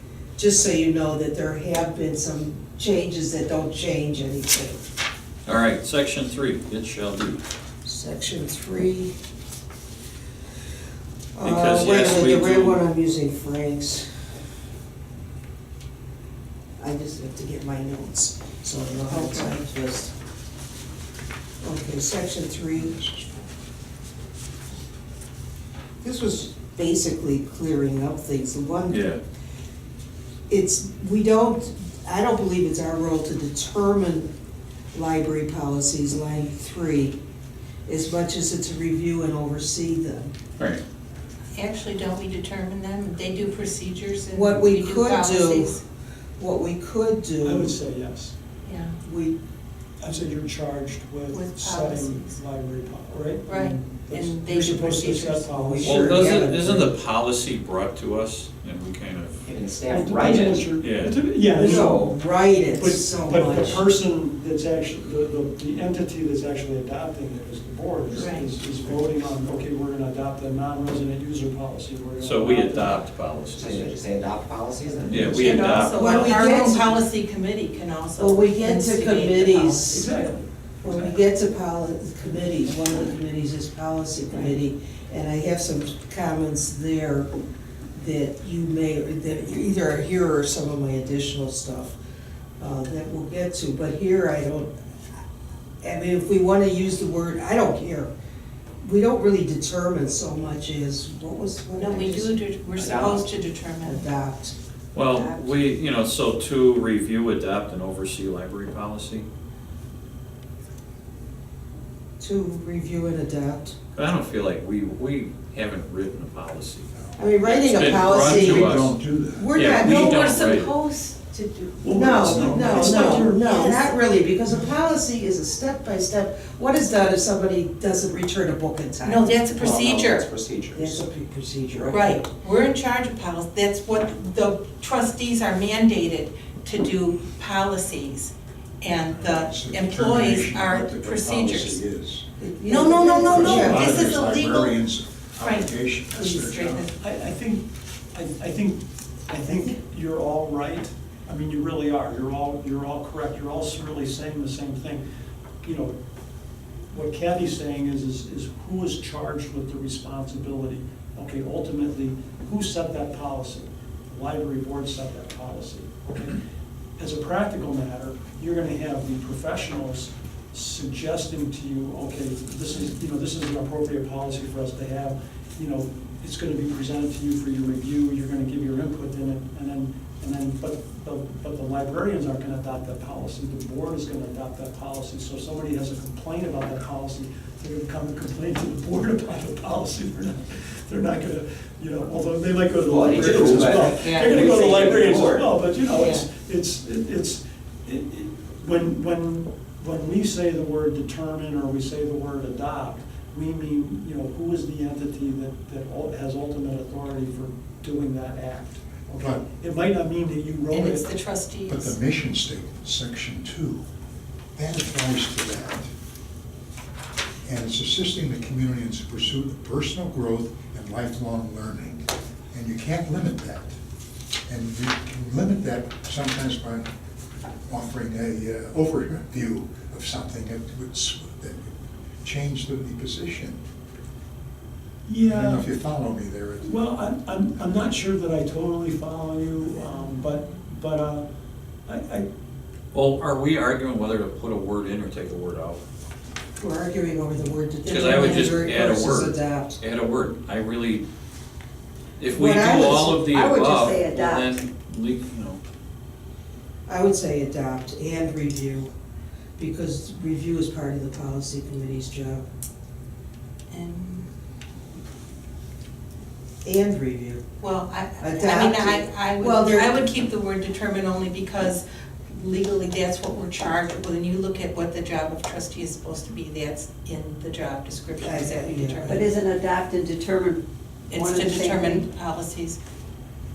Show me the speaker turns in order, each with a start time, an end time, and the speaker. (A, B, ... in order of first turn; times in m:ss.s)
0:00.4-0:04.8 A
0:05.4-0:07.4 B
0:07.8-0:09.1 A
0:11.4-0:14.1 A
0:11.4-0:12.8 B
0:16.8-0:20.1 A
0:21.6-0:23.0 A
0:22.8-0:23.4 C
0:26.0-0:29.1 A
0:28.9-0:29.2 B
0:30.5-0:34.3 A
0:34.9-0:37.2 A
0:37.8-0:40.3 A
0:41.6-0:45.8 D
0:44.3-0:45.8 A
0:46.4-0:47.8 A
0:47.4-0:48.4 E
0:48.6-0:49.0 D
0:49.0-0:49.4 A
0:50.0-0:56.4 E
0:51.3-0:52.4 D
0:53.4-0:55.3 D
0:55.1-0:56.9 A
0:55.8-0:59.4 B
0:59.4-1:00.8 F
0:59.9-1:02.0 E
1:00.8-1:01.1 B
1:01.5-1:03.8 A
1:01.7-1:02.1 F
1:02.7-1:13.0 E
1:08.2-1:09.1 C
1:08.2-1:08.5 D
1:12.2-1:13.9 B
1:13.6-1:15.4 F
1:15.0-1:16.0 B
1:15.3-1:20.0 D
1:16.0-1:17.0 A
1:18.2-1:20.0 A
1:19.9-1:20.5 E
1:20.8-1:27.3 A
1:27.9-1:32.0 A
1:32.6-1:35.2 A
1:35.8-1:38.1 A
1:38.8-1:42.4 A
1:41.7-1:44.0 D
1:42.7-1:43.3 F
1:43.8-1:44.5 A
1:44.9-1:49.2 B
1:52.2-1:53.7 A
1:53.9-1:58.9 B
1:57.2-2:00.2 A
1:58.0-1:59.5 C
1:59.5-2:00.7 B
1:59.7-2:02.0 D
2:01.8-2:03.5 E
2:01.9-2:09.4 A
2:02.2-2:02.7 C
2:02.6-2:03.9 D
2:09.0-2:10.2 D
2:09.5-2:11.0 F
2:10.7-2:12.3 A
2:11.9-2:21.8 D
2:19.1-2:22.2 C
2:22.4-2:24.1 A
2:22.6-2:24.8 D
2:23.3-2:26.9 C
2:25.4-2:26.9 D
2:27.0-2:35.0 E
2:35.6-2:36.0 E
2:36.9-2:46.4 E
2:47.0-3:31.1 E
3:12.8-3:15.6 F
3:29.1-3:29.4 C
3:30.7-3:32.0 D
3:31.7-3:33.8 C
3:34.6-3:35.9 C
3:37.4-3:43.7 C
3:44.5-3:46.9 C
3:47.7-3:53.6 C
3:55.0-3:55.7 E
3:55.2-3:56.7 C
3:56.6-4:01.2 E
4:01.8-4:02.2 E
4:02.9-4:05.8 B
4:06.6-4:09.8 A
4:07.8-4:11.0 B
4:12.2-4:15.6 B
4:12.3-4:13.2 A
4:13.3-4:14.6 G
4:16.9-4:18.9 A
4:19.6-4:22.4 A
4:23.7-4:24.3 D
4:26.6-4:27.4 A
4:27.6-4:39.3 D
4:28.2-4:30.0 A
4:38.2-4:39.1 A
4:39.0-4:42.1 G
4:41.1-4:42.8 D